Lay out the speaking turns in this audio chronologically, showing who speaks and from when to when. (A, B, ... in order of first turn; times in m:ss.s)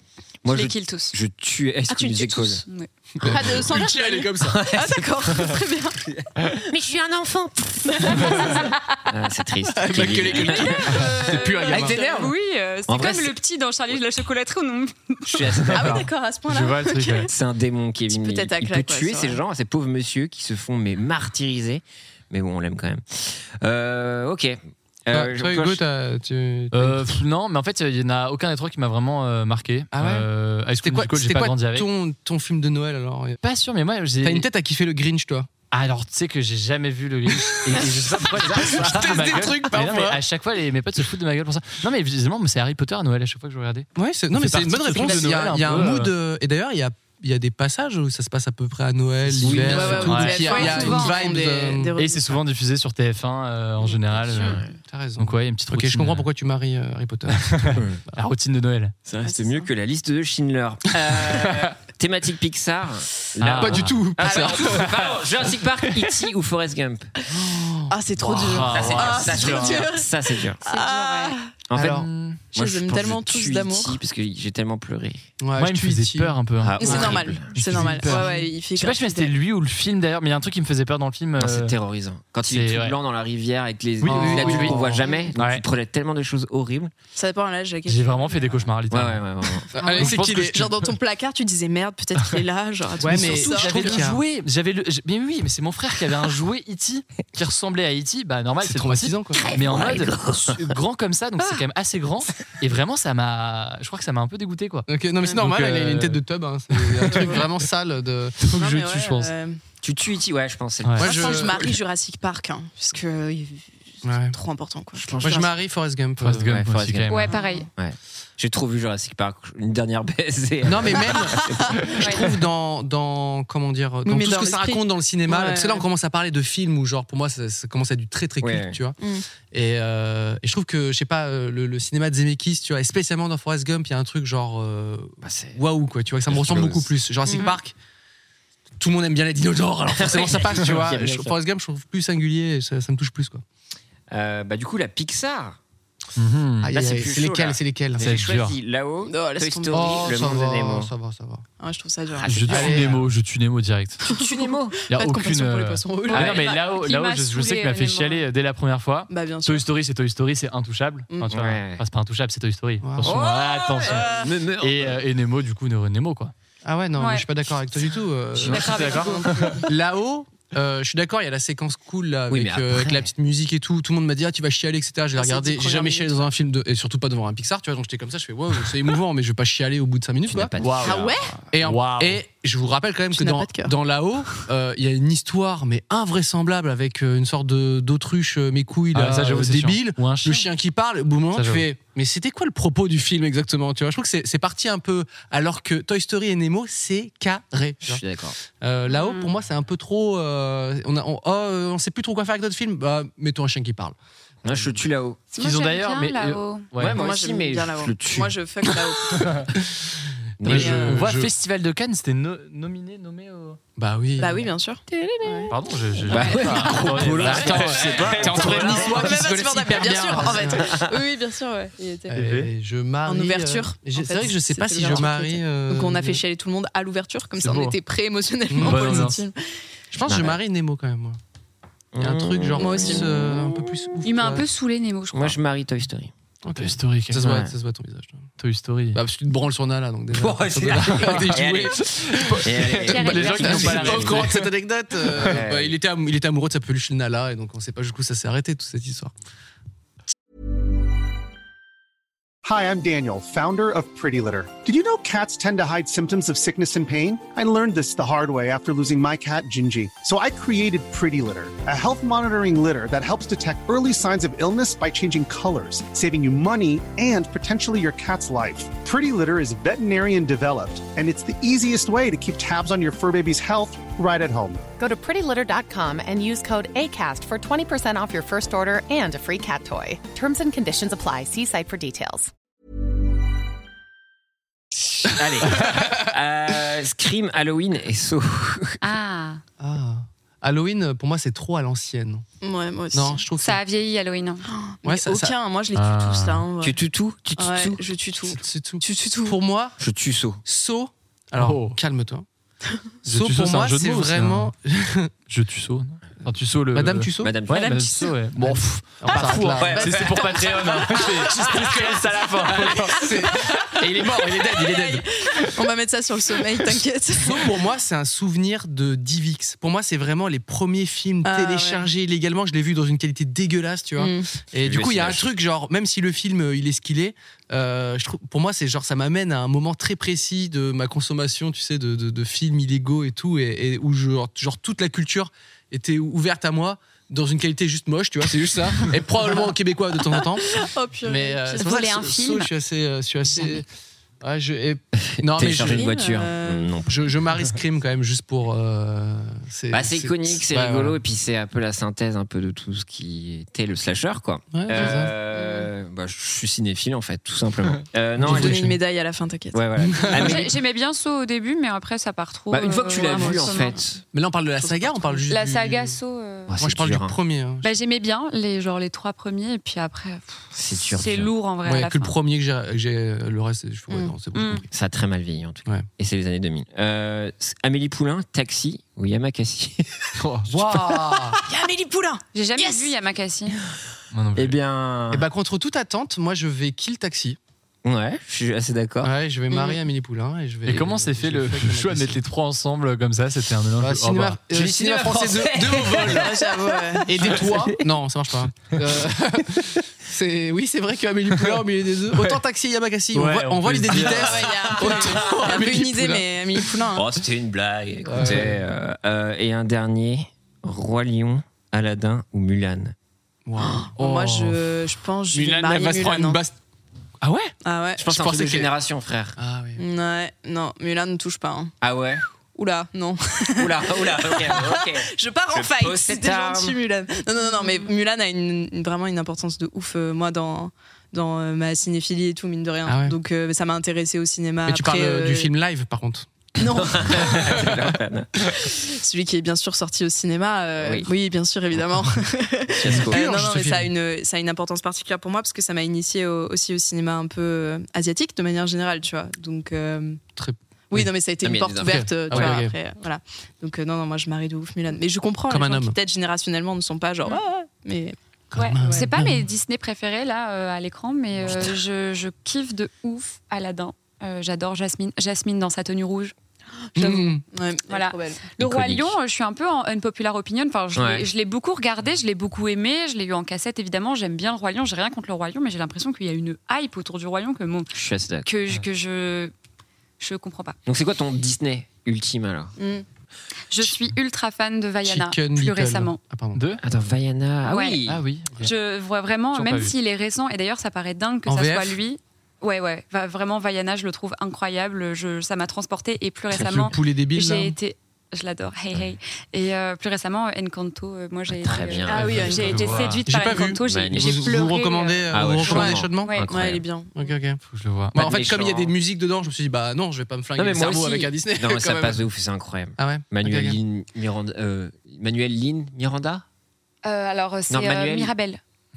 0:00.4-0:02.6 A
0:00.5-0:01.2 B
0:01.9-0:02.6 C
0:03.2-0:04.7 D
0:03.2-0:03.6 A
0:03.3-0:06.0 C
0:04.5-0:12.3 A
0:08.0-0:08.4 C
0:08.2-0:09.0 B
0:09.7-0:12.0 D
0:10.7-0:15.6 B
0:12.9-0:13.4 A
0:15.3-0:16.1 A
0:15.6-0:17.3 E
0:15.7-0:17.3 C
0:17.3-0:25.8 A
0:18.1-0:19.4 C
0:25.1-0:27.0 D
0:26.7-0:31.9 E
0:29.9-0:33.4 D
0:33.4-0:34.5 E
0:34.2-0:35.5 D
0:35.7-0:46.1 E
0:37.4-0:40.2 D
0:44.0-0:52.0 D
0:49.3-0:51.0 E
0:49.4-0:50.8 A
0:49.6-0:52.4 C
0:50.5-0:51.2 B
0:51.9-0:54.7 E
0:54.2-0:54.7 A
0:54.8-0:58.2 D
0:55.2-0:56.3 E
0:57.3-0:59.1 E
0:57.8-0:58.0 A
0:59.2-1:07.1 A
0:59.2-0:59.7 C
1:03.4-1:05.8 E
1:03.6-1:05.0 D
1:04.2-1:04.5 C
1:07.3-1:08.0 D
1:07.9-1:11.5 C
1:08.2-1:10.7 A
1:08.2-1:09.9 E
1:10.6-1:11.4 B
1:11.7-1:15.3 A
1:11.7-1:12.1 D
1:12.0-1:12.4 E
1:12.5-1:14.0 C
1:15.4-1:17.2 D
1:15.6-1:21.8 E
1:16.6-1:17.6 A
1:16.8-1:19.3 C
1:21.4-1:26.9 A
1:22.4-1:23.0 E
1:24.0-1:25.6 E
1:24.0-1:25.1 D
1:27.2-1:28.4 C
1:27.9-1:30.9 E
1:28.9-1:29.8 A
1:29.8-1:30.6 D
1:29.8-1:34.0 C
1:33.0-1:34.2 D
1:33.0-1:44.9 E
1:38.6-1:39.5 D
1:39.4-1:40.7 A
1:44.9-1:48.5 D
1:45.2-1:45.7 C
1:45.4-1:46.2 E
1:46.9-1:47.4 E
1:47.1-1:47.4 C
1:48.4-1:49.3 E
1:48.6-1:49.6 C
1:49.8-1:51.8 A
1:50.8-1:51.1 E
1:51.0-1:51.7 D
1:51.1-1:55.5 C
1:54.0-1:54.4 D
1:55.0-1:55.6 A
1:55.2-1:56.6 D
1:56.2-1:57.4 E
1:56.4-2:02.1 A
1:57.1-1:57.6 B
1:57.3-1:57.7 C
2:00.6-2:17.7 D
2:01.3-2:01.8 C
2:02.0-2:02.3 B
2:04.0-2:05.8 C
2:08.4-2:08.8 A
2:09.0-2:09.2 C
2:15.2-2:15.6 A
2:16.3-2:16.9 A
2:17.3-2:17.6 B
2:18.8-2:23.4 D
2:19.9-2:21.4 A
2:24.1-2:25.6 A
2:26.2-2:26.8 E
2:26.6-2:28.1 D
2:26.8-2:30.9 A
2:28.0-2:28.6 E
2:29.0-2:30.0 C
2:29.7-2:31.5 D
2:31.6-2:32.8 C
2:32.1-2:33.0 A
2:32.2-2:34.1 E
2:32.5-2:33.0 D
2:34.0-2:36.7 C
2:34.1-2:34.8 A
2:34.9-2:46.3 E
2:36.1-2:38.2 B
2:36.1-2:36.6 A
2:39.1-2:39.7 C
2:41.3-2:41.8 A
2:42.8-2:43.2 D
2:43.0-2:45.0 A
2:43.9-2:44.3 C
2:46.6-3:00.5 D
2:46.9-2:47.3 B
2:48.4-2:49.6 E
2:48.6-2:49.4 B
2:52.3-2:53.1 A
2:55.1-2:56.3 C
3:00.3-3:01.3 A
3:00.6-3:01.0 E
3:00.8-3:01.3 C
3:01.5-3:18.0 D
3:01.6-3:02.2 E
3:03.1-3:04.5 C
3:08.9-3:10.5 E
3:11.3-3:11.7 E
3:17.8-3:18.4 A
3:18.6-3:24.8 D
3:18.9-3:19.4 B
3:24.4-3:25.3 A
3:25.3-3:26.7 B
3:25.4-3:27.0 E
3:26.8-3:28.4 A
3:27.0-3:29.2 C
3:29.1-3:29.5 E
3:30.4-3:31.3 D
3:30.4-3:31.0 A
3:30.5-3:30.9 C
3:30.8-3:33.6 E
3:33.8-3:34.5 D
3:34.2-3:35.5 C
3:34.9-3:35.5 A
3:35.5-3:38.8 E
3:36.1-3:39.1 A
3:36.1-3:37.0 C
3:37.1-3:40.8 D
3:38.4-3:42.1 C
3:42.1-3:46.2 D
3:42.2-3:42.5 E
3:43.1-3:49.4 C
3:47.4-3:47.8 E
3:48.5-3:48.9 D
3:48.6-3:49.2 E
3:49.9-3:51.2 D
3:50.0-3:50.4 A
3:51.9-3:53.3 A
3:52.0-3:54.5 D
3:52.6-3:53.0 C
3:54.0-3:55.4 B
3:55.1-3:56.1 A
3:56.4-3:58.3 D
3:56.6-3:57.3 E
3:57.2-3:57.5 A
3:58.4-3:59.0 E
3:58.9-4:09.1 D
4:00.1-4:04.2 A
4:00.8-4:01.4 E
4:02.3-4:04.6 E
4:02.9-4:03.6 B
4:05.2-4:05.8 A
4:12.4-4:34.6 F
4:34.7-4:42.3 G
4:44.8-4:48.9 A
4:48.8-4:49.4 B
4:49.6-4:52.2 D
4:52.4-4:53.3 C
4:52.9-4:53.6 D
4:53.4-4:54.5 B
4:54.5-4:56.8 C
4:54.8-4:55.4 D
4:55.7-4:56.5 E
4:56.6-4:57.9 A
4:57.4-4:59.4 C
4:58.2-4:59.8 D
4:59.8-5:00.4 A
5:00.4-5:02.3 D
5:01.4-5:01.8 E
5:03.0-5:05.1 D
5:03.0-5:04.5 E
5:05.3-5:13.2 E
5:06.7-5:07.4 D
5:07.2-5:07.9 A
5:07.7-5:08.1 C
5:08.3-5:10.2 D
5:09.2-5:11.2 C
5:09.6-5:11.9 A
5:11.2-5:15.0 D
5:14.4-5:17.5 C
5:17.2-5:40.5 D
5:21.2-5:21.9 C
5:24.0-5:24.3 C
5:24.6-5:25.3 A
5:40.4-5:41.7 C
5:41.0-5:43.6 D
5:41.6-5:42.5 B
5:43.3-5:43.6 B
5:44.2-5:46.0 D
5:45.0-5:47.2 A
5:45.7-5:46.8 C
5:46.9-5:51.0 D
5:49.7-5:58.8 A
5:54.5-5:55.2 D
5:54.8-5:55.7 B
5:58.2-5:58.8 D
5:58.2-5:59.6 C
5:59.5-6:00.6 A
5:59.8-6:00.4 D
6:00.0-6:03.8 B
6:02.5-6:04.0 A
6:03.0-6:03.4 C
6:04.1-6:06.0 D
6:04.6-6:05.2 C
6:05.2-6:06.6 B
6:06.5-6:07.2 A
6:06.6-6:07.7 D
6:07.6-6:12.2 B
6:10.5-6:11.3 A
6:11.6-6:14.7 D
6:13.9-6:14.2 C
6:14.3-6:14.7 B
6:14.7-6:20.2 A
6:20.2-6:20.7 E
6:20.5-6:21.4 D
6:20.9-6:21.2 A
6:21.5-6:23.0 C
6:22.3-6:23.6 B
6:24.1-6:24.6 E
6:24.4-6:25.3 A
6:25.1-6:27.4 D
6:27.8-6:29.1 A
6:29.0-6:32.2 D
6:29.5-6:29.8 C
6:30.6-6:34.4 E
6:33.8-6:36.4 D
6:34.5-6:37.8 A
6:36.2-6:37.1 C
6:37.1-6:46.7 D
6:43.1-6:45.0 E
6:43.9-6:47.1 C
6:44.2-6:45.7 A
6:46.9-6:53.0 A
6:48.0-6:48.6 D
6:53.5-6:54.7 D
6:53.7-6:56.4 C
6:55.3-6:56.6 D
6:57.2-6:58.7 D
6:57.6-6:58.0 C
6:58.0-6:59.4 A
6:59.4-6:59.8 D
6:59.8-7:01.7 C
7:01.8-7:02.2 A
7:02.5-7:15.5 C
7:03.6-7:06.8 A
7:07.6-7:07.9 B
7:12.8-7:13.2 D
7:14.7-7:16.3 D
7:16.6-7:17.6 C
7:16.6-7:18.4 A
7:17.1-7:18.0 D
7:18.8-7:30.2 C
7:20.8-7:21.1 A
7:22.7-7:23.2 A
7:22.8-7:23.9 D
7:30.4-7:31.1 D
7:30.9-7:38.2 C
7:31.4-7:32.6 A
7:31.8-7:32.8 D
7:35.5-7:36.0 D
7:38.5-7:39.5 D
7:38.6-7:46.3 B
7:38.8-7:39.1 C
7:41.5-7:41.7 A
7:47.0-7:47.4 D
7:47.0-7:47.3 B
7:47.0-7:48.5 C
7:47.9-7:57.9 B
7:48.5-7:49.2 A
7:51.0-7:51.3 A
7:57.9-7:58.5 A
7:58.4-7:59.5 B
8:00.2-8:00.8 B
8:00.9-8:02.7 A
8:02.8-8:03.0 C
8:03.7-8:06.2 B
8:05.0-8:06.6 D
8:06.5-8:06.8 E
8:06.8-8:08.2 A
8:07.6-8:08.0 B
8:08.0-8:08.7 E
8:08.6-8:26.5 B
8:09.5-8:10.0 E
8:11.5-8:12.0 D
8:16.6-8:17.8 D
8:21.5-8:22.6 A
8:22.1-8:22.5 C
8:22.1-8:26.5 D
8:22.5-8:23.3 E
8:23.8-8:24.5 A
8:25.3-8:26.9 A
8:25.6-8:27.2 C
8:27.1-8:27.6 D
8:27.6-8:28.2 E
8:28.1-8:32.2 D
8:28.2-8:29.0 A
8:30.6-8:36.4 A
8:33.0-8:33.8 D
8:37.0-8:38.6 B
8:37.7-8:38.3 A